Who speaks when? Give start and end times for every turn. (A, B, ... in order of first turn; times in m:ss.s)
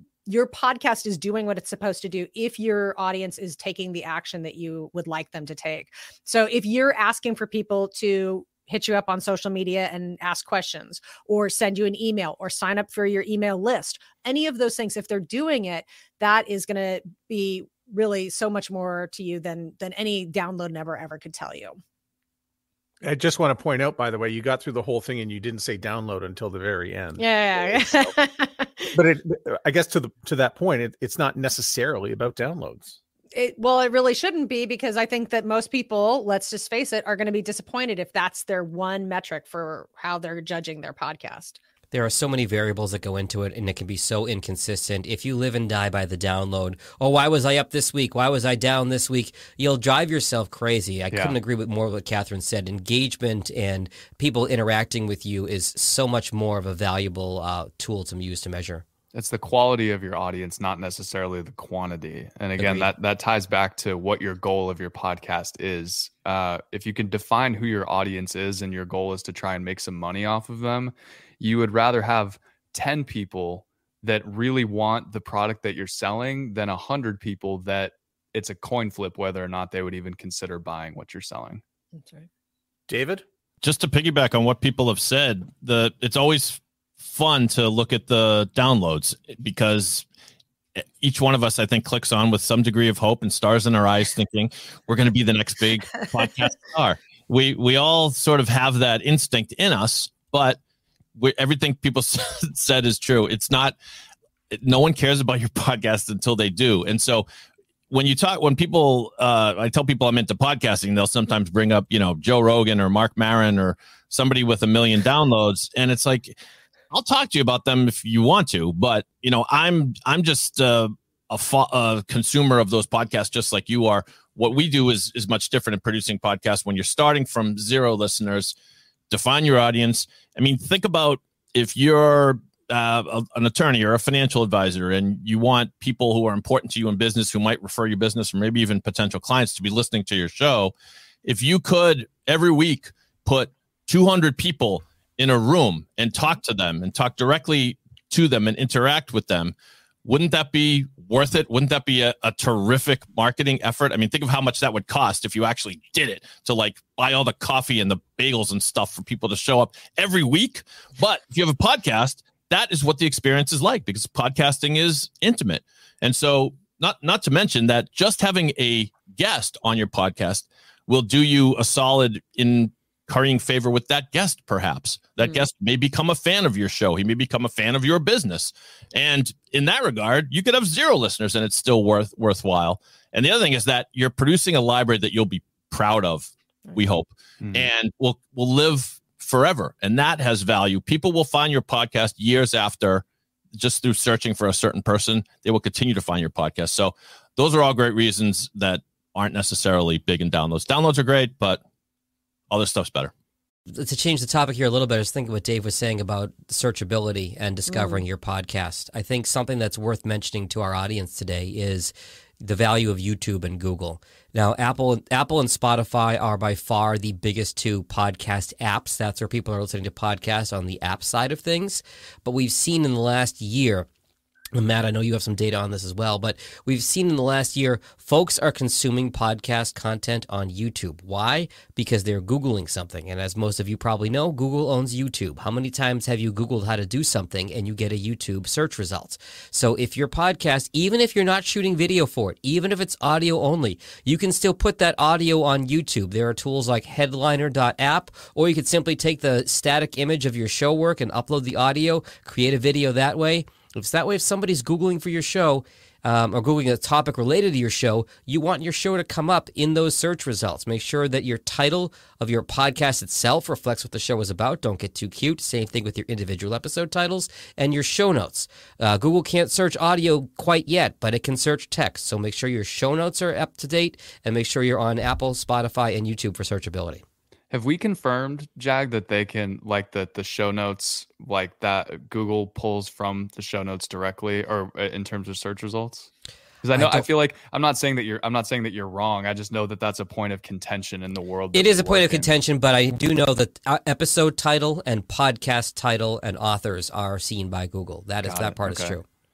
0:00.3-0:21.8 A
0:23.0-0:28.2 B
0:27.2-0:29.0 A
0:28.9-0:33.0 B
0:33.3-0:41.6 A
0:41.9-0:58.8 C
0:59.1-1:21.6 D
1:02.6-1:02.9 C
1:22.0-1:22.3 A
1:22.9-1:23.2 B
1:23.6-1:30.0 E
1:30.8-1:40.6 E
1:41.2-1:43.8 E
1:44.5-1:47.3 E
1:47.9-1:56.4 E
1:56.9-2:08.5 E
2:09.1-2:20.7 E
2:21.2-3:21.6 E
3:07.4-3:07.7 D
3:22.5-3:23.1 E
3:23.7-3:43.9 C
3:27.7-3:28.0 A
3:44.5-4:37.0 C
4:37.5-4:46.1 D
4:46.6-4:52.3 D
4:46.8-4:47.1 C
4:51.5-4:59.0 C
4:58.2-4:59.0 D